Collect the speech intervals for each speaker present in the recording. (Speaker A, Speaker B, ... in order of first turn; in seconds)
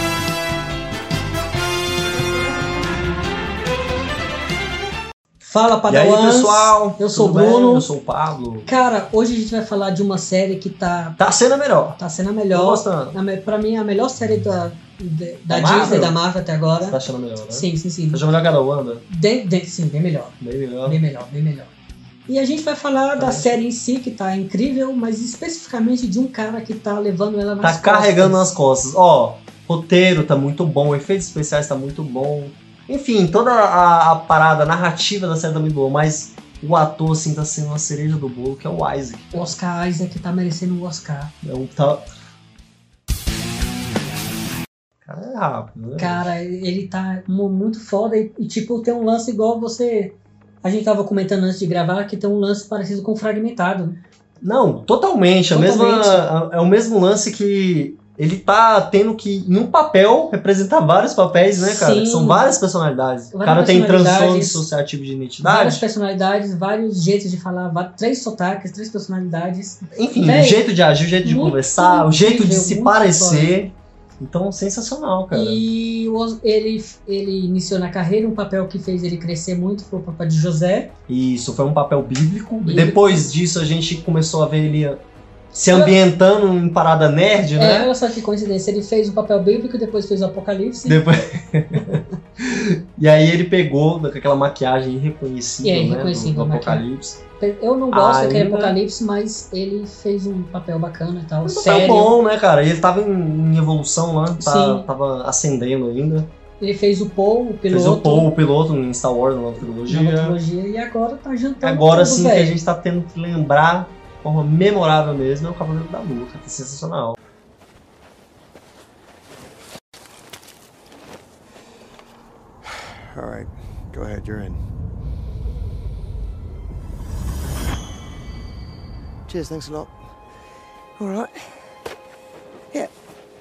Speaker A: 5.4-7.9, 8.7-11.2, 12.0-17.0, 17.5-18.2, 19.1-21.7, 22.3-28.5, 39.3-41.3, 46.0-54.0, 55.5-56.3, 61.6-62.5, 63.3-64.6, 65.4-70.6, 71.2-73.6, 75.3-80.9, 82.6-83.3, 85.7-86.0, 87.5-91.0, 95.6-96.8, 97.4-102.1, 104.4-104.9, 106.6-108.3, 109.9-112.6
Speaker B: 5.9-8.7, 11.2-12.0, 12.5-13.2, 15.5-16.2, 16.8-19.0, 20.4-21.0, 23.2-23.6, 27.6-39.5, 41.4-42.1, 45.0-46.2, 54.4-65.8, 69.9-75.6, 81.1-85.0, 85.5-87.9, 90.8-97.2, 97.9-98.8, 101.5-106.3, 107.7-110.4, 111.6-117.2
Speaker C: 122.7-124.6, 129.3-129.9, 131.0-131.4